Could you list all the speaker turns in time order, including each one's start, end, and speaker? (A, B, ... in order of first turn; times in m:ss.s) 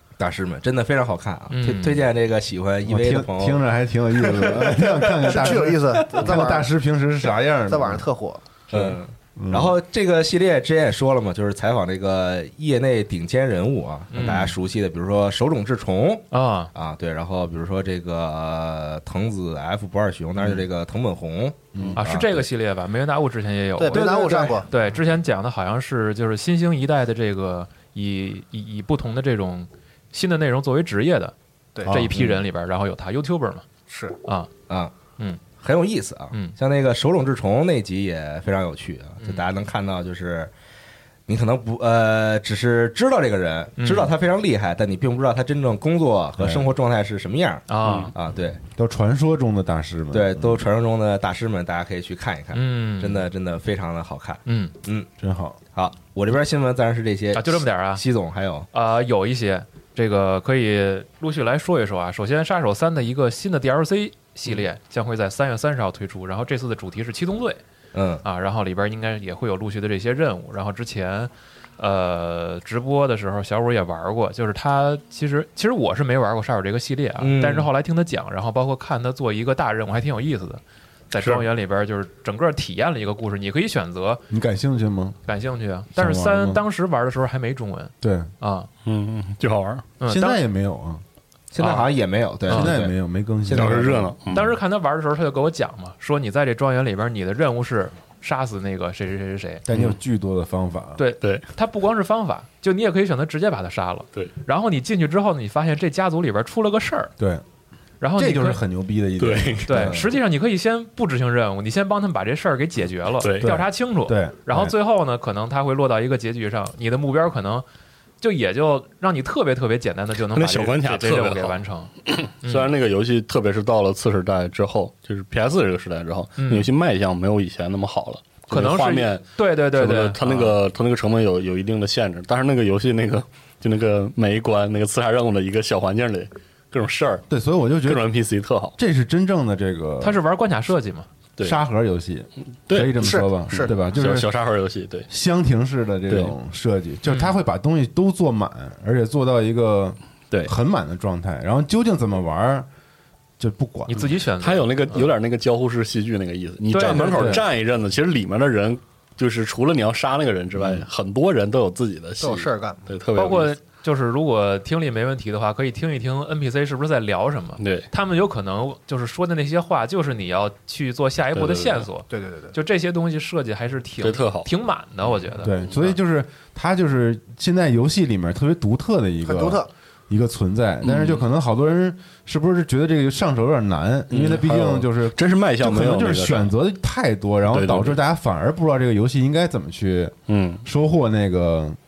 0:00.2-0:03.6 A
0:01.5-0:02.1 B
0:02.8-0:08.1 C
0:05.1-0:06.7 D
0:07.2-0:08.4 D
0:08.7-0:22.4 A
0:08.7-0:09.8 C
0:14.1-0:14.5 B
0:16.3-0:16.7 B
0:21.7-0:22.0 C
0:22.0-0:31.3 B
0:23.8-0:24.7 D
0:23.9-0:24.7 A
0:31.7-0:32.1 D
0:31.8-0:32.2 C
0:31.8-0:33.7 B
0:33.9-0:34.2 D
0:35.6-0:40.5 A
0:39.2-0:39.4 B
0:41.3-0:48.6 A
0:43.8-0:44.1 B
0:46.4-0:46.7 C
0:47.7-0:48.1 B
0:47.8-0:48.1 E
0:48.8-0:50.6 C
0:50.1-0:55.1 A
0:52.5-0:53.2 B
0:54.4-0:54.7 B
0:55.2-0:55.6 C
0:55.7-0:58.7 A
0:57.3-0:58.0 B
0:58.7-1:07.6 B
1:07.9-1:08.2 A
1:08.2-1:24.2 B
1:17.2-1:17.7 A
1:21.2-1:21.4 E
1:24.3-1:25.2 C
1:25.2-1:28.7 B
1:25.9-1:26.6 C
1:28.0-1:28.3 C
1:28.8-1:29.9 E
1:30.0-1:30.4 B
1:30.0-1:31.0 C
1:31.5-1:32.9 A
1:31.6-1:31.9 B
1:32.5-1:34.1 C
1:33.5-1:34.1 A
1:33.5-1:34.6 E
1:34.3-1:39.6 B
1:39.6-1:41.0 C
1:41.0-1:47.1 B
1:41.2-1:41.4 E
1:47.2-1:47.4 C
1:48.0-1:48.6 B
1:48.2-1:50.0 C
1:49.2-1:49.9 E
1:49.6-1:57.6 B
1:53.2-1:53.6 E
1:54.0-1:54.6 C
1:58.2-2:02.7 B
2:00.3-2:17.2 E
2:06.4-2:06.7 B
2:08.5-2:10.5 B
2:17.3-2:18.1 C
2:17.8-2:18.7 E
2:18.8-2:20.2 C
2:20.0-2:21.0 B
2:21.4-2:24.3 C
2:22.7-2:25.1 E
2:23.0-2:23.7 D
2:25.1-2:32.7 C
2:26.1-2:26.3 E
2:27.0-2:27.4 B
2:33.4-2:34.1 C
2:33.9-2:35.1 B
2:34.4-2:43.5 E
2:36.6-2:37.4 B
2:36.9-2:37.4 C
2:42.2-2:42.9 D
2:43.1-2:55.6 B
2:47.6-2:47.9 E
2:51.4-2:51.9 E
2:52.1-2:52.6 D
2:54.0-2:54.5 E
2:55.4-3:11.8 C
2:59.2-2:59.7 D
3:00.8-3:01.2 E
3:04.1-3:06.5 E
3:07.5-3:08.0 E
3:10.3-3:10.6 E